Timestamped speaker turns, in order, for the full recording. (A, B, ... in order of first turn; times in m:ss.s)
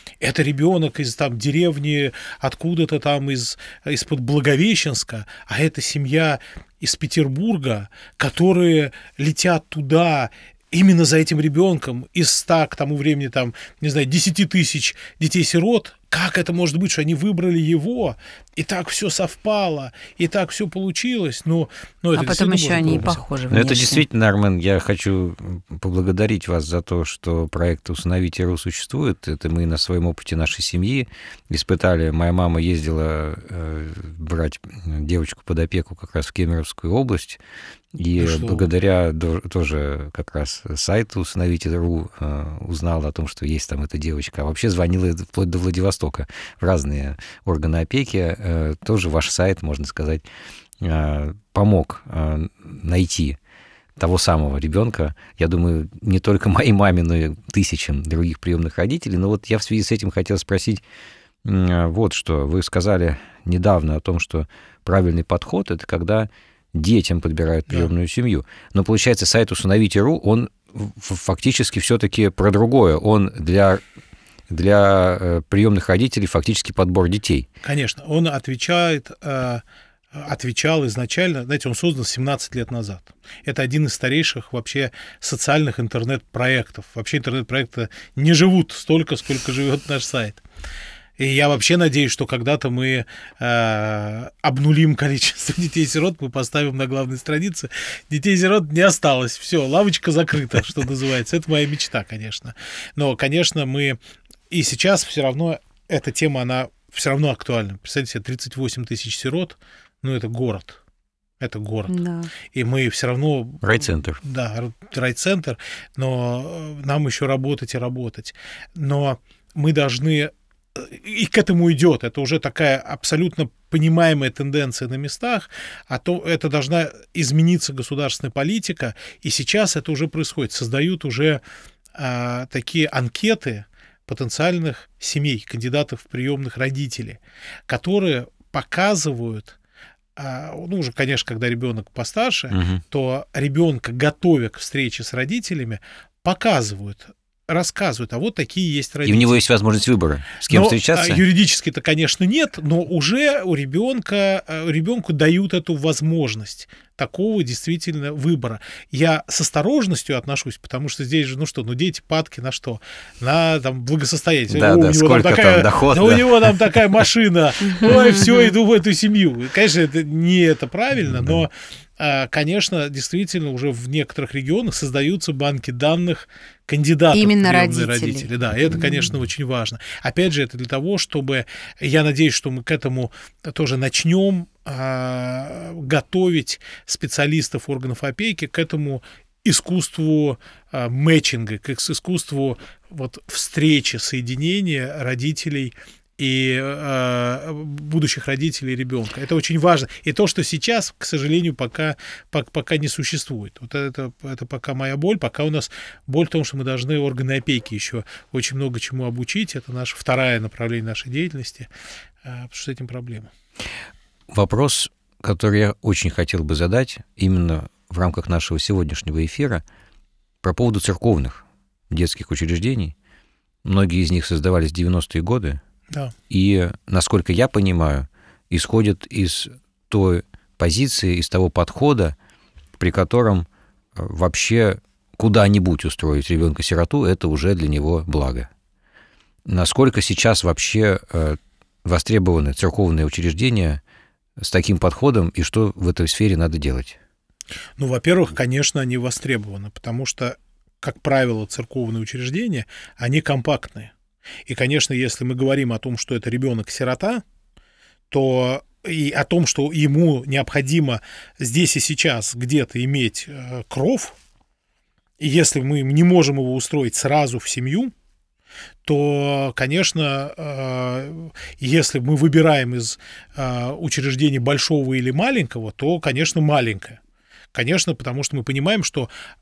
0:00.2-0:23.2 A
0:22.2-0:24.0 B
0:23.5-0:37.4 C
0:38.0-0:50.2 C
0:38.2-0:38.7 A
0:50.8-0:53.4 C
0:54.0-1:00.8 C
1:01.4-1:13.8 C
1:14.5-1:17.5 C
1:17.6-1:19.6 A
1:20.1-1:30.4 A
1:31.2-1:44.0 A
1:44.5-1:50.8 A
1:51.4-1:52.0 A
1:51.9-1:52.3 B
1:52.5-1:53.6 A
1:53.6-1:54.2 C
1:54.2-2:11.4 A
2:12.0-2:19.6 A
2:20.2-2:29.4 A
2:22.5-2:22.8 C
2:29.0-2:31.2 C
2:30.5-3:31.7 A
2:44.5-2:46.7 C
2:47.6-2:48.5 B
2:51.1-2:51.4 C
2:57.1-2:59.1 B
3:32.2-3:33.3 A
3:34.3-3:39.6 C
3:40.4-3:42.9 C
3:43.6-3:45.6 C
3:46.3-3:52.2 C
3:52.8-3:58.5 C
3:59.5-4:03.8 C
4:04.4-4:07.0 C
4:07.8-4:13.9 A
4:14.5-4:17.2 A
4:18.1-4:24.2 A
4:25.2-4:27.9 A
4:28.8-4:37.0 A
4:37.5-4:39.1 A